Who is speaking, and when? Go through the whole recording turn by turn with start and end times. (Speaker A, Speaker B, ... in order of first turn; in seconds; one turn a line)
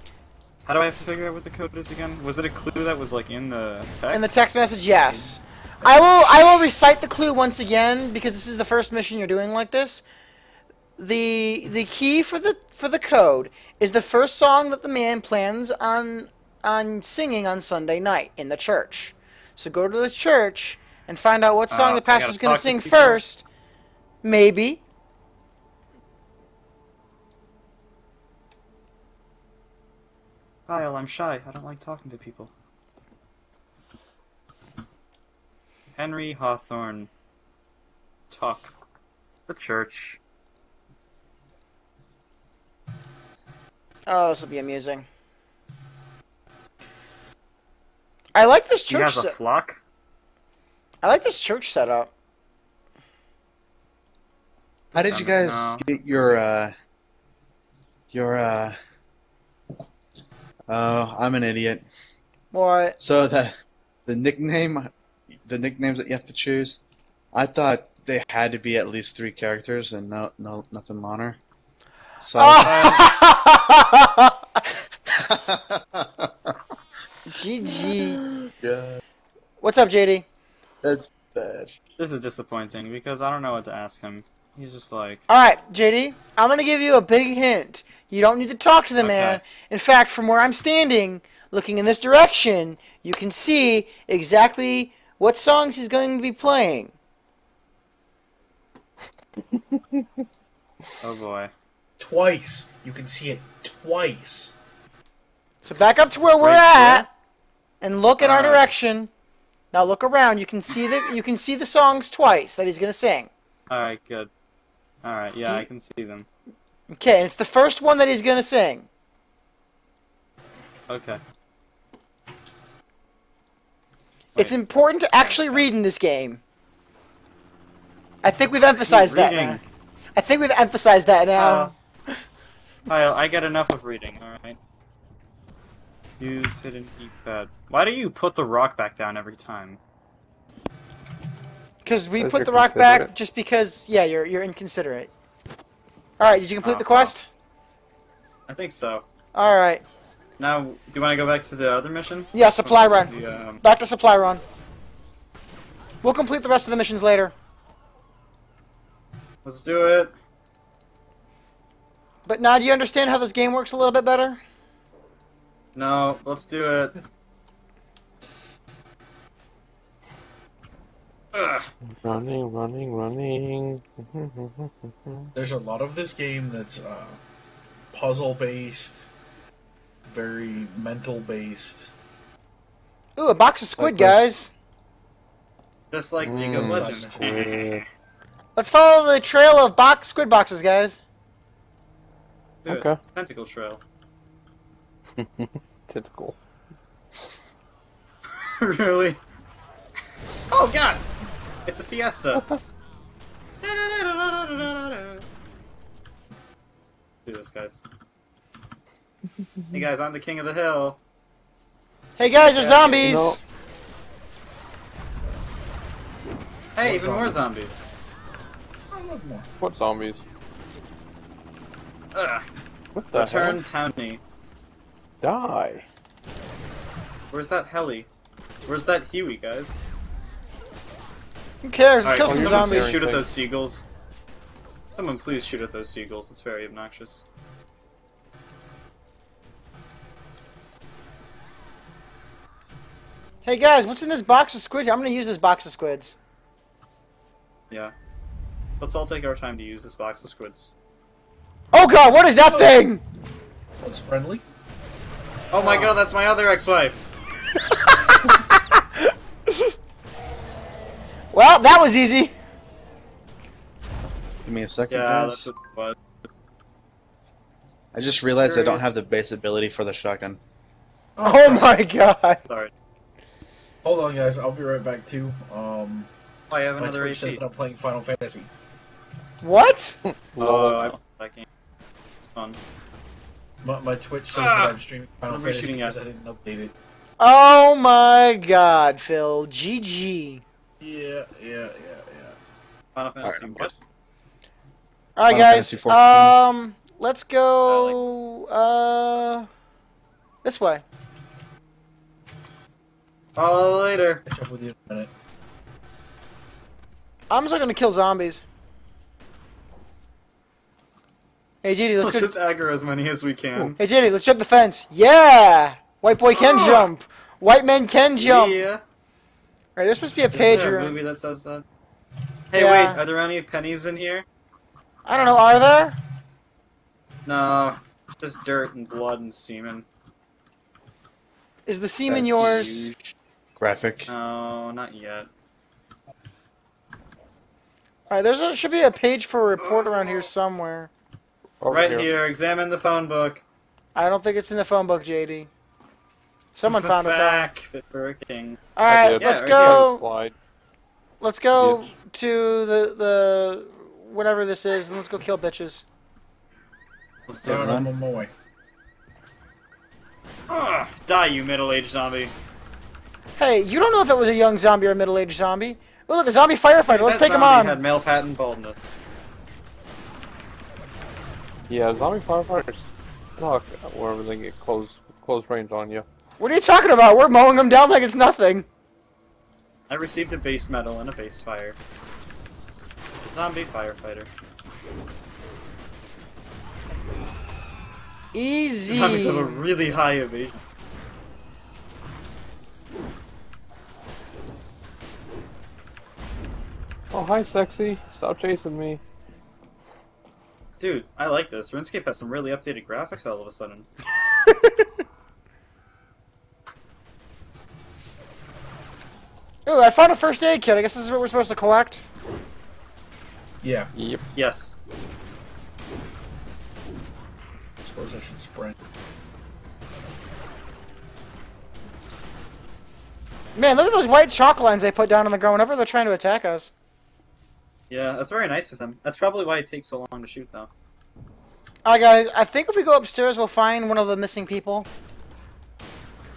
Speaker A: 0.6-4.3
Speaker B: 4.1-10.0
Speaker C: 5.1-6.0
Speaker B: 11.0-23.4
Speaker A: 21.7-23.2
Speaker B: 24.2-24.8
Speaker A: 30.7-32.5
Speaker A: 36.0-37.1
Speaker A: 38.3-38.7
Speaker A: 39.5-40.2
Speaker B: 44.1-45.0
Speaker B: 48.3-49.4
Speaker A: 48.9-49.8
Speaker B: 51.0-52.1
Speaker A: 54.9-55.8
Speaker D: 54.9-56.7
Speaker D: 58.1-58.8
Speaker D: 60.7-61.8
Speaker B: 62.5-63.0
Speaker D: 63.0-63.5
Speaker D: 64.0-64.9
Speaker D: 65.5-66.8
Speaker D: 67.3-71.4
Speaker D: 72.2-72.7
Speaker B: 72.3-74.3
Speaker A: 72.6-73.1
Speaker D: 75.1-76.5
Speaker B: 77.3-78.2
Speaker D: 77.8-79.0
Speaker B: 79.6-80.2
Speaker D: 80.8-81.7
Speaker A: 82.0-85.2
Speaker B: 85.3-96.9
Speaker A: 89.0-89.4
Speaker E: 99.6-100.0
Speaker A: 101.0-101.5
Speaker C: 102.0-104.5
Speaker B: 105.6-107.1
Speaker A: 106.4-107.1
Speaker B: 107.8-109.1
Speaker A: 108.2-108.7
Speaker B: 109.7-113.3
Speaker A: 113.7-114.3
Speaker A: 115.0-116.3
Speaker B: 116.9-118.9
Speaker A: 120.9-121.2
Speaker B: 124.3-126.4
Speaker A: 125.2-125.7
Speaker B: 128.2-129.6
Speaker A: 128.8-129.6
Speaker B: 130.2-131.7
Speaker A: 131.3-131.7
Speaker A: 132.8-134.6
Speaker A: 136.2-139.8
Speaker B: 141.8-145.1
Speaker E: 142.2-143.1
Speaker B: 146.2-147.2
Speaker A: 146.6-147.1
Speaker A: 148.5-149.0
Speaker B: 149.3-149.8
Speaker A: 150.4-153.6
Speaker B: 152.3-154.4
Speaker B: 156.0-157.3
Speaker A: 159.4-160.1
Speaker B: 162.2-164.4
Speaker A: 165.7-167.0
Speaker A: 171.3-171.7
Speaker E: 171.9-175.3
Speaker C: 175.3-177.2
Speaker C: 177.9-179.1
Speaker C: 180.1-181.9
Speaker B: 183.2-184.5
Speaker E: 183.8-184.3
Speaker A: 185.9-187.8
Speaker E: 186.2-187.8
Speaker C: 186.5-187.6
Speaker B: 188.6-191.0
Speaker A: 192.6-193.8
Speaker E: 192.7-193.0
Speaker E: 195.2-196.4
Speaker A: 198.4-199.2
Speaker A: 200.5-201.0
Speaker A: 201.7-202.4
Speaker A: 203.6-205.2
Speaker A: 207.2-207.8
Speaker A: 209.7-211.0
Speaker B: 212.2-213.4
Speaker A: 212.3-213.1
Speaker E: 213.0-213.4
Speaker A: 216.8-217.9
Speaker C: 216.8-217.4
Speaker C: 218.9-219.5
Speaker E: 219.6-220.2
Speaker A: 222.1-222.4
Speaker E: 222.9-223.7
Speaker A: 223.1-224.2
Speaker E: 225.2-225.8
Speaker A: 227.3-228.1
Speaker A: 228.7-229.8
Speaker B: 231.6-232.9
Speaker A: 232.0-233.8
Speaker E: 232.2-233.3
Speaker A: 235.0-237.2
Speaker B: 243.4-246.2
Speaker A: 248.8-250.7
Speaker B: 251.7-253.0
Speaker C: 253.8-254.4
Speaker A: 255.5-257.0
Speaker B: 257.6-259.7
Speaker B: 261.3-262.3
Speaker D: 264.4-265.5
Speaker A: 264.9-266.0
Speaker D: 267.9-270.4
Speaker A: 268.4-268.8
Speaker C: 271.1-271.7
Speaker B: 271.2-272.4
Speaker C: 273.8-276.1
Speaker A: 276.5-277.4
Speaker C: 276.7-278.5
Speaker B: 279.4-280.0
Speaker E: 280.1-280.9
Speaker A: 280.4-281.4
Speaker A: 282.3-282.6
Speaker C: 283.6-286.7
Speaker A: 284.3-284.8
Speaker A: 285.3-286.0
Speaker B: 287.2-290.4
Speaker C: 290.8-292.4
Speaker A: 292.9-293.7
Speaker D: 293.2-293.7
Speaker B: 295.1-299.5
Speaker D: 295.3-296.4
Speaker A: 297.6-298.0
Speaker B: 300.4-300.8
Speaker A: 303.4-304.2
Speaker C: 304.3-305.1
Speaker B: 307.3-308.4
Speaker B: 311.6-312.3
Speaker A: 312.0-313.8
Speaker B: 313.8-318.7
Speaker A: 316.3-316.9
Speaker A: 318.2-318.8
Speaker B: 319.8-321.0
Speaker A: 320.3-321.6
Speaker A: 322.5-324.2
Speaker B: 322.5-323.0
Speaker B: 325.0-325.9
Speaker A: 327.2-329.9
Speaker B: 331.6-332.9
Speaker D: 332.1-332.8
Speaker A: 332.3-333.1
Speaker D: 333.6-334.1
Speaker A: 334.1-335.3
Speaker B: 338.1-340.9
Speaker E: 341.6-342.1
Speaker A: 341.7-343.4
Speaker B: 343.9-345.5
Speaker B: 346.5-347.5
Speaker A: 346.6-349.8
Speaker B: 348.8-350.0
Speaker E: 348.8-350.3
Speaker B: 351.2-355.9
Speaker A: 357.3-357.7
Speaker D: 357.4-357.9
Speaker C: 357.4-358.3
Speaker A: 360.5-362.3
Speaker B: 363.4-367.8
Speaker A: 366.9-368.8
Speaker E: 371.7-376.1
Speaker B: 376.4-378.6
Speaker A: 379.9-381.8
Speaker A: 383.3-384.3
Speaker B: 388.3-389.7
Speaker A: 388.9-390.6
Speaker E: 397.1-399.0
Speaker A: 400.8-403.9
Speaker B: 404.4-404.9
Speaker B: 409.6-412.0
Speaker C: 413.6-413.9
Speaker E: 413.9-414.2
Speaker A: 414.3-414.8
Speaker C: 417.8-418.7
Speaker B: 423.5-426.7
Speaker A: 427.9-430.7
Speaker B: 431.8-434.9